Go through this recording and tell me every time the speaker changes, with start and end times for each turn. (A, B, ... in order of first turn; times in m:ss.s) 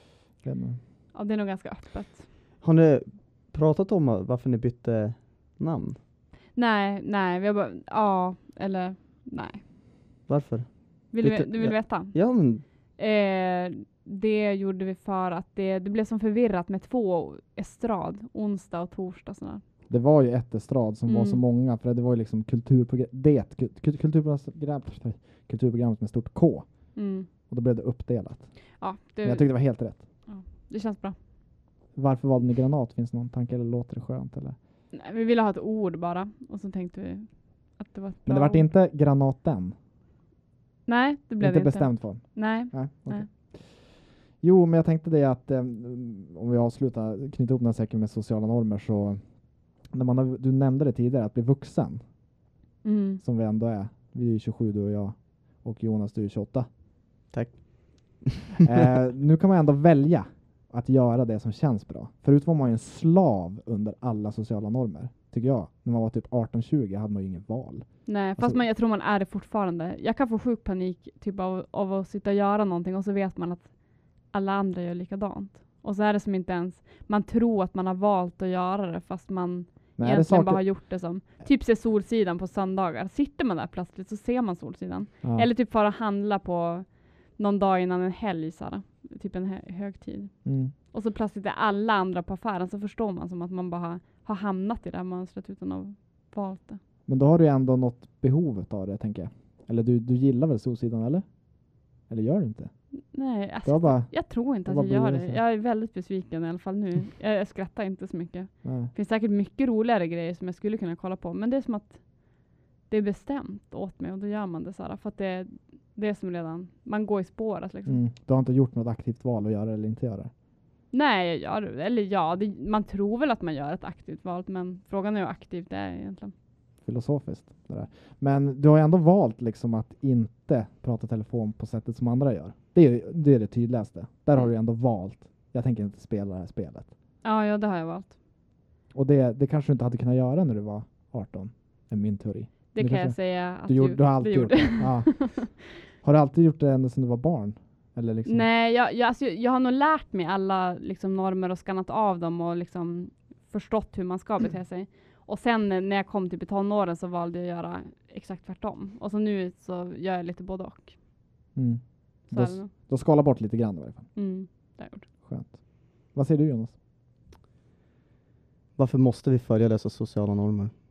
0:00.4-0:00.8 A
0:01.1-0:02.2 B
0:02.6-0:06.0 C
0:06.6-0:09.6 B
0:10.3-0:12.6 C
0:11.1-0:12.3 B
0:13.0-0:19.6 B
0:19.9-0:26.7 A
0:21.1-0:21.4 B
0:27.0-0:27.3 B
0:27.5-0:28.5 A
0:28.8-0:31.2 B
0:29.2-0:30.0 A
0:32.0-0:34.6 A
0:34.9-0:38.7 B
0:38.3-0:39.8 A
0:40.9-0:43.3 B
0:41.4-0:43.8 A
0:44.4-0:49.2 A
0:49.9-0:52.0 A
0:52.8-0:53.2 B
0:53.2-0:56.7 A
0:57.3-0:58.6 C
0:58.6-1:08.6 A
1:08.1-1:36.8 B
1:20.0-1:20.8 A
1:30.4-1:30.7 A
1:37.1-1:41.3 A
1:42.1-1:42.7 A
1:43.1-1:58.0 B
1:43.6-1:45.4 A
1:48.6-1:48.9 A
1:57.9-2:00.3 A
2:00.9-2:06.3 B
2:06.8-2:16.9 A
2:17.2-2:18.2 B
2:18.9-2:28.4 A
2:22.7-2:25.5 B
2:28.3-2:41.0 B
2:41.6-2:44.1 A
2:42.3-2:42.7 B
2:44.2-2:45.1 B
2:45.2-2:46.7 A
2:48.8-2:50.7 C